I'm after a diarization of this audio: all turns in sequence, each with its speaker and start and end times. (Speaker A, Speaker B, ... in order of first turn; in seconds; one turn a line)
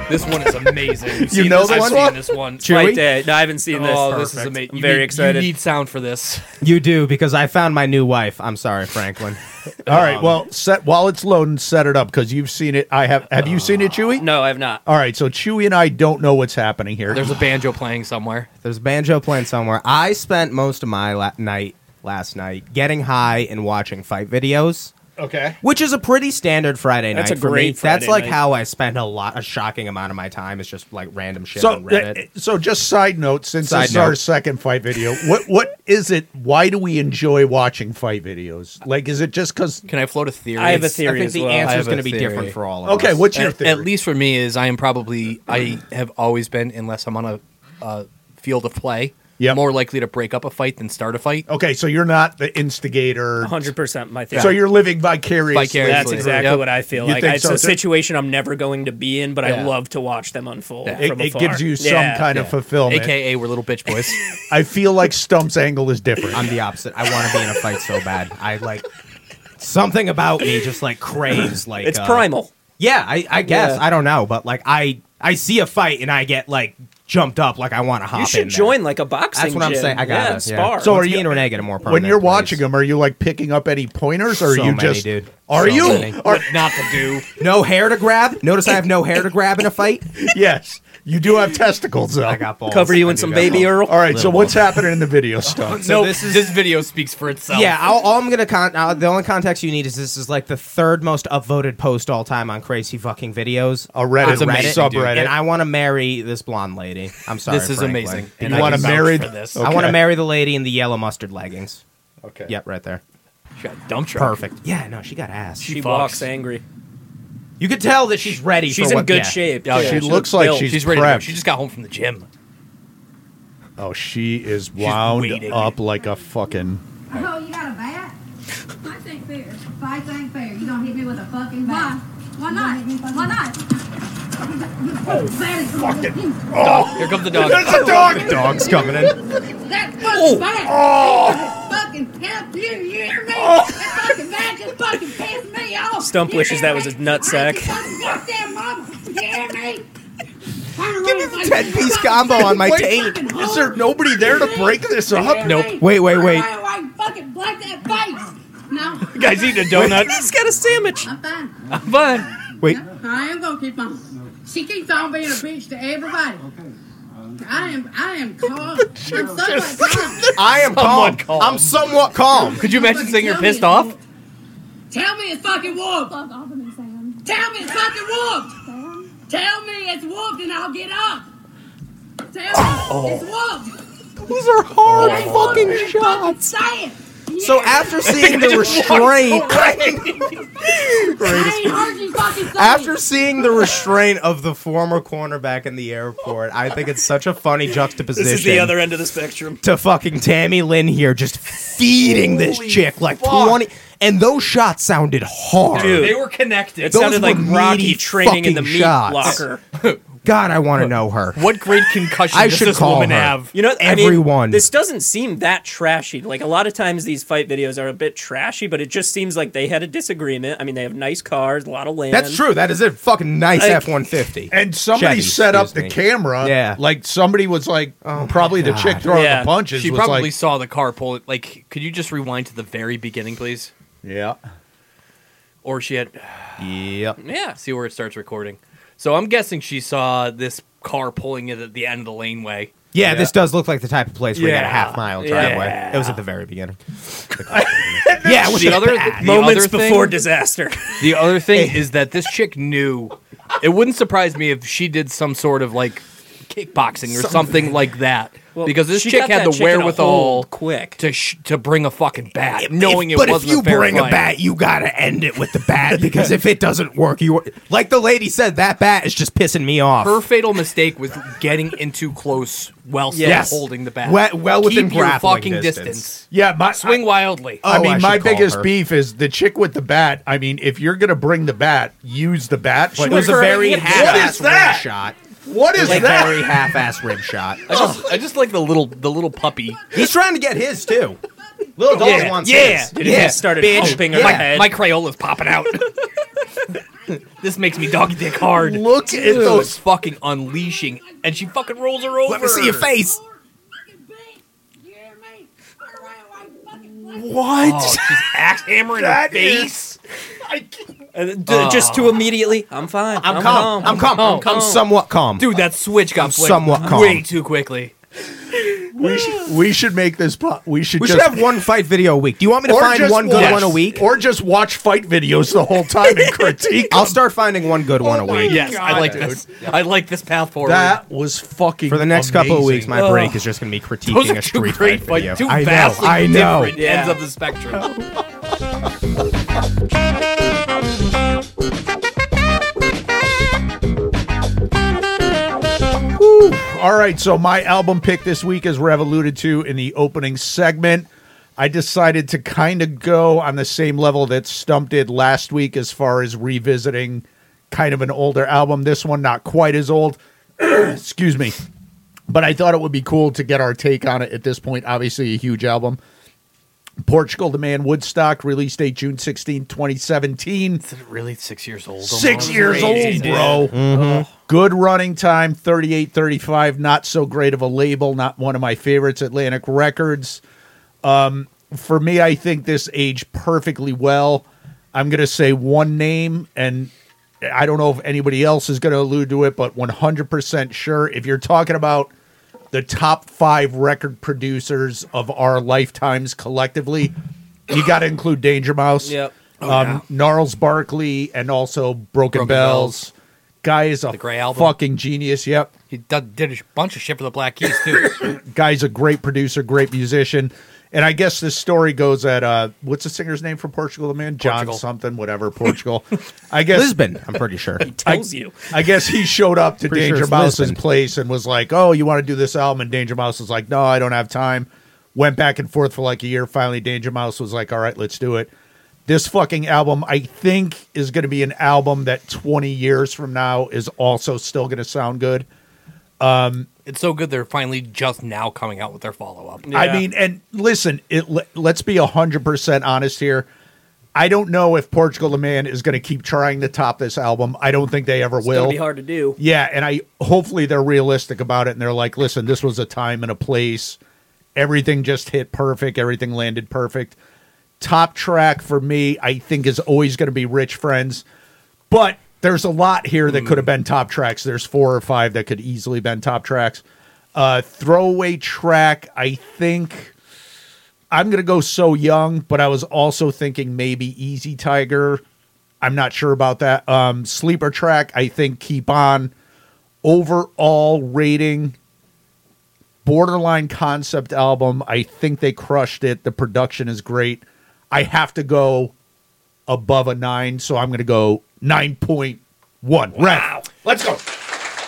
Speaker A: 0.1-2.7
Speaker B: 1.1-2.2
Speaker C: 1.6-3.0
Speaker D: 2.6-5.5
Speaker A: 3.7-6.5
Speaker C: 6.6-10.4
Speaker B: 9.9-14.2
Speaker D: 14.2-14.8
Speaker B: 14.8-17.4
Speaker A: 17.1-18.5
Speaker C: 18.6-24.9
Speaker B: 25.2-25.6
Speaker C: 25.6-32.2
Speaker D: 27.1-28.4
Speaker B: 31.6-39.8
Speaker C: 33.6-34.2
Speaker A: 39.9-42.6
Speaker D: 40.6-41.8
Speaker C: 41.0-43.3
Speaker B: 42.9-43.9
Speaker A: 43.3-51.5
Speaker B: 51.5-53.7
Speaker D: 53.4-54.6
Speaker A: 54.3-54.6
Speaker B: 54.3-57.8
Speaker A: 55.5-56.6
Speaker D: 55.8-62.3
Speaker A: 59.4-59.7
Speaker B: 61.0-63.1
Speaker A: 62.3-64.2
Speaker B: 64.5-66.5
Speaker C: 66.3-68.8
Speaker C: 69.6-72.3
Speaker D: 71.8-72.5
Speaker C: 72.8-78.8
Speaker D: 73.4-73.8
Speaker D: 78.1-80.9
Speaker C: 79.3-82.6
Speaker B: 80.8-86.9
Speaker C: 84.3-86.2
Speaker A: 85.8-87.3
Speaker C: 87.4-90.1
Speaker B: 90.2-92.5
Speaker C: 92.2-94.8
Speaker D: 92.7-94.1
Speaker B: 93.9-95.8
Speaker C: 95.5-96.6
Speaker A: 95.7-97.8
Speaker C: 97.5-111.8
Speaker B: 103.9-105.3
Speaker A: 104.2-105.2
Speaker A: 107.5-109.9
Speaker B: 108.4-110.0
Speaker B: 112.2-112.5
Speaker C: 112.5-113.0
Speaker A: 113.6-114.4
Speaker C: 114.2-115.7
Speaker D: 115.6-116.6
Speaker A: 115.6-116.3
Speaker C: 117.6-119.4
Speaker D: 118.7-120.7
Speaker A: 119.7-122.3
Speaker B: 119.8-121.3
Speaker B: 123.8-127.0
Speaker A: 124.8-125.8
Speaker E: 127.1-128.2
Speaker E: 128.8-133.6
Speaker E: 134.6-136.5
Speaker B: 135.1-139.2
Speaker A: 136.6-138.1
Speaker C: 137.6-139.2
Speaker E: 139.7-149.8
Speaker B: 140.1-141.7
Speaker B: 143.3-144.2
Speaker D: 146.0-147.8
Speaker E: 150.7-160.3
Speaker C: 151.2-153.2
Speaker B: 152.4-155.6
Speaker A: 155.4-155.8
Speaker C: 155.8-156.5
Speaker A: 159.1-160.3
Speaker D: 159.7-161.1
Speaker E: 161.0-161.8
Speaker A: 161.7-162.3
Speaker E: 162.7-166.5
Speaker E: 167.4-170.4
Speaker B: 169.1-170.0
Speaker A: 169.5-171.8
Speaker C: 170.3-172.6
Speaker E: 172.3-174.0
Speaker A: 172.4-173.9
Speaker E: 174.9-181.3
Speaker E: 182.3-183.8
Speaker A: 182.7-183.3
Speaker C: 184.3-186.2
Speaker A: 184.9-185.8
Speaker B: 184.9-186.0
Speaker E: 184.9-190.3
Speaker C: 187.4-189.7
Speaker A: 188.1-188.7
Speaker B: 188.2-191.5
Speaker A: 189.5-190.0
Speaker E: 191.2-193.0
Speaker C: 191.2-191.8
Speaker C: 192.5-198.8
Speaker D: 198.1-199.6
Speaker C: 199.6-206.2
Speaker B: 202.0-203.6
Speaker D: 205.7-206.2
Speaker A: 205.7-207.1
Speaker D: 206.8-209.6
Speaker C: 206.9-209.4
Speaker A: 209.2-210.0
Speaker C: 210.2-211.5
Speaker A: 210.8-213.5
Speaker C: 212.3-214.7
Speaker D: 213.5-222.4
Speaker C: 222.1-226.8
Speaker D: 223.6-223.9
Speaker B: 224.5-230.3
Speaker C: 228.0-229.1
Speaker D: 229.1-229.5
Speaker A: 229.7-233.7
Speaker B: 234.0-234.4
Speaker A: 235.6-236.7
Speaker C: 236.6-237.2
Speaker D: 237.2-237.6
Speaker A: 237.6-243.3
Speaker C: 242.9-249.3
Speaker A: 244.3-246.2
Speaker D: 245.2-245.7
Speaker B: 247.5-249.0
Speaker A: 248.3-250.2
Speaker D: 249.2-251.0
Speaker A: 251.0-264.2
Speaker C: 251.5-251.8
Speaker B: 257.2-257.5
Speaker D: 258.6-261.0
Speaker C: 262.6-270.2
Speaker A: 270.0-277.6
Speaker D: 273.1-273.5
Speaker C: 273.2-276.1
Speaker B: 276.3-277.1
Speaker C: 277.6-278.7
Speaker B: 277.6-284.9
Speaker C: 283.0-285.2
Speaker D: 283.0-284.4
Speaker A: 283.2-284.0
Speaker B: 285.4-286.6
Speaker C: 285.7-287.7
Speaker D: 285.9-286.3
Speaker A: 287.7-289.8
Speaker D: 287.7-288.0
Speaker C: 289.9-291.2
Speaker C: 291.8-294.5
Speaker A: 291.9-296.1
Speaker D: 292.0-294.8
Speaker E: 296.4-297.2
Speaker A: 296.7-302.9
Speaker B: 298.5-299.8
Speaker E: 299.1-299.4
Speaker E: 300.6-307.5
Speaker C: 302.3-303.1
Speaker B: 307.0-308.2
Speaker A: 307.6-310.0
Speaker B: 308.9-309.7
Speaker B: 310.4-310.8
Speaker D: 311.1-314.9
Speaker A: 311.5-312.3
Speaker C: 313.2-315.5
Speaker A: 313.4-314.9
Speaker A: 315.4-317.9
Speaker C: 316.2-317.3
Speaker B: 318.7-321.4
Speaker C: 321.0-324.1
Speaker B: 322.6-327.2
Speaker A: 323.3-323.8
Speaker C: 326.9-329.2
Speaker B: 328.0-329.7
Speaker A: 328.4-331.0
Speaker B: 330.6-332.9
Speaker C: 331.9-336.8
Speaker D: 332.9-333.4
Speaker A: 334.1-337.9
Speaker D: 336.8-337.2
Speaker B: 337.8-338.2
Speaker B: 346.1-361.6
Speaker B: 362.3-366.0
Speaker B: 367.0-370.8
Speaker A: 370.8-373.7
Speaker B: 372.0-373.8
Speaker D: 372.4-374.3
Speaker C: 373.7-374.3
Speaker B: 374.5-380.4
Speaker B: 381.0-386.9
Speaker B: 387.4-392.1
Speaker B: 392.7-397.1
Speaker B: 397.7-405.7
Speaker D: 399.0-399.3
Speaker A: 399.6-400.0
Speaker A: 402.3-403.1
Speaker A: 404.1-404.8
Speaker A: 405.9-408.2
Speaker B: 408.2-416.9
Speaker A: 414.4-414.8
Speaker C: 416.7-417.9
Speaker D: 417.8-418.7
Speaker B: 418.1-428.5
Speaker C: 419.9-420.8
Speaker B: 429.1-435.5
Speaker B: 436.2-436.7
Speaker A: 436.9-439.7
Speaker D: 439.7-440.1
Speaker B: 439.7-443.5
Speaker B: 444.1-448.8
Speaker D: 448.4-449.4
Speaker B: 449.4-454.0
Speaker B: 454.6-457.2
Speaker B: 457.8-461.2
Speaker B: 461.9-466.8
Speaker A: 463.3-463.7
Speaker B: 467.4-470.1
Speaker B: 471.1-475.2
Speaker B: 475.8-479.3
Speaker B: 480.0-481.8
Speaker B: 483.0-488.9
Speaker B: 489.7-494.3
Speaker D: 493.3-493.6